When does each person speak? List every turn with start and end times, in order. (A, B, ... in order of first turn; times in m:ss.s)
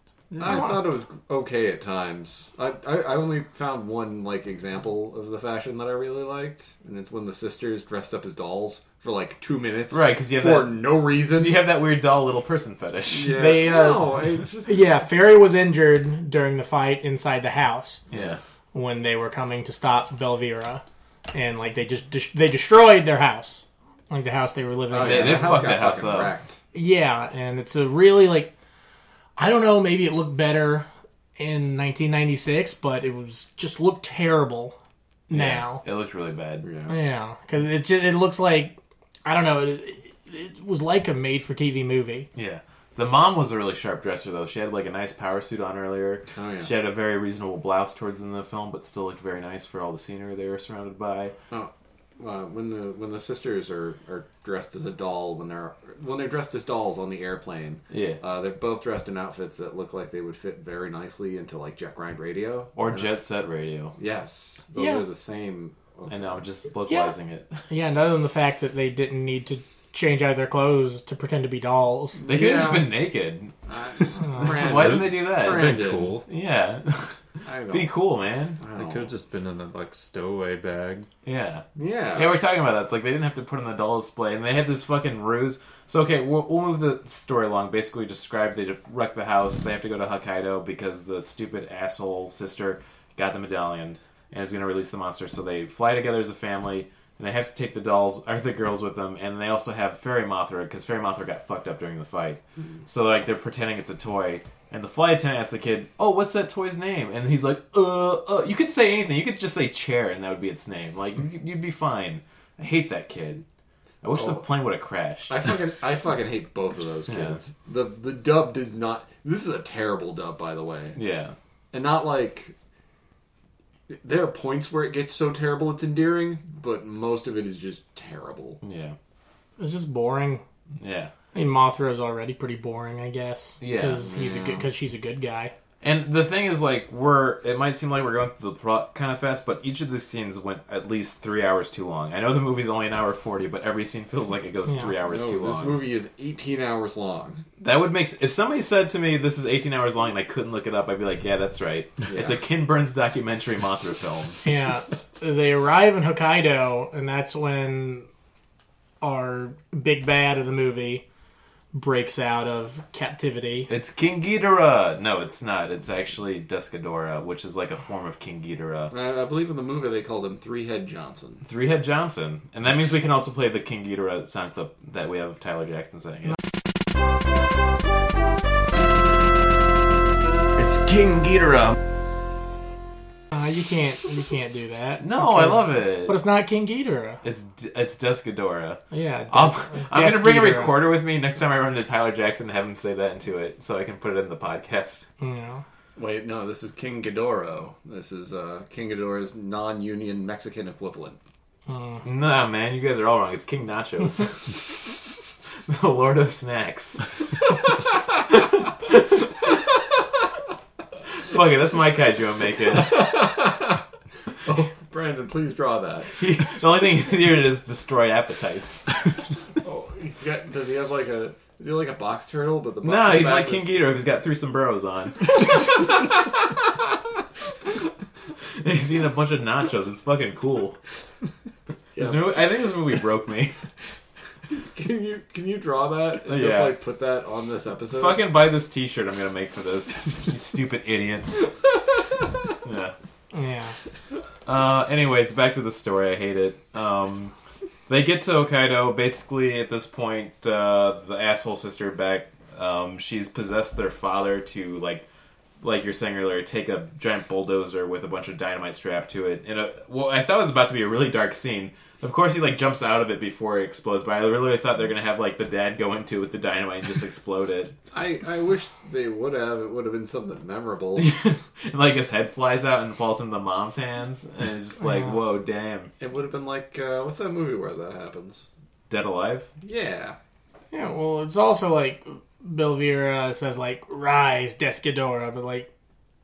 0:00.3-0:00.6 A
0:00.4-0:11.6 B
0:09.9-0:13.4 C
0:13.1-0:14.9 B
0:13.4-0:14.1 D
0:14.6-0:18.0 D
0:18.1-0:18.5 B
0:18.1-0:18.4 C
0:18.7-0:25.6 D
0:24.9-0:26.6 B
0:25.0-0:26.3 C
0:26.7-0:28.5 D
0:29.4-0:34.8 D
0:35.3-0:35.8 D
0:35.3-0:36.7 C
0:36.6-0:37.0 B
0:36.9-0:42.3 D
0:42.4-0:51.4 C
0:46.3-0:46.7 B
0:51.5-1:03.1 B
0:57.9-0:58.2 C
1:02.8-1:04.0 C
1:04.0-1:06.5 B
1:04.8-1:05.0 D
1:06.1-1:07.6 C
1:06.9-1:07.1 D
1:07.7-1:12.2 D
1:12.2-1:12.9 B
1:12.3-1:13.5 C
1:13.7-1:16.2 B
1:14.3-1:18.6 C
1:14.7-1:16.2 A
1:17.4-1:18.0 B
1:18.6-1:19.1 B
1:18.7-1:21.1 A
1:21.2-1:53.4 C
1:21.8-1:22.4 B
1:54.0-1:55.5 C
1:54.1-1:54.5 B
1:55.3-2:01.0 B
1:57.1-1:57.4 C
2:01.0-2:01.4 C
2:01.7-2:02.5 B
2:03.9-2:08.6 B
2:08.6-2:09.0 C
2:09.6-2:10.4 D
2:10.8-2:11.1 C
2:11.3-2:15.5 D
2:13.6-2:14.1 C
2:14.0-2:14.7 B
2:15.8-2:25.8 C
2:24.7-2:24.9 D
2:25.0-2:27.4 B
2:27.6-2:34.5 C
2:32.1-2:32.4 B
2:34.4-2:38.1 D
2:39.0-2:41.0 D
2:41.7-2:43.7 D
2:43.7-2:48.9 C
2:48.9-2:51.5 B
2:51.4-2:56.4 C
3:03.3-3:07.2 D
3:05.0-3:06.2 C
3:07.2-3:15.1 C
3:08.9-3:10.8 D
3:15.2-3:15.6 D
3:16.0-3:21.2 B
3:21.7-3:22.0 D
3:22.0-3:27.1 C
3:28.3-3:29.7 C
3:31.1-3:33.3 C
3:32.7-3:33.8 B
3:34.4-3:36.1 B
3:36.2-3:39.1 C
3:39.6-3:43.8 B
3:42.8-3:46.1 C
3:48.6-3:50.8 C
3:52.0-3:52.4 B
3:52.0-3:53.6 C
3:54.5-3:58.2 B
3:56.2-3:56.8 C
3:57.9-4:01.5 C
4:02.6-4:02.9 C
4:03.3-4:03.8 D
4:04.5-4:07.3 C
4:07.9-4:15.1 C
4:15.6-4:27.8 C
4:27.9-4:31.1 B
4:31.0-4:35.9 C
4:36.0-4:38.5 B
4:38.9-4:39.5 C
4:39.6-4:40.2 B
4:40.7-4:45.7 D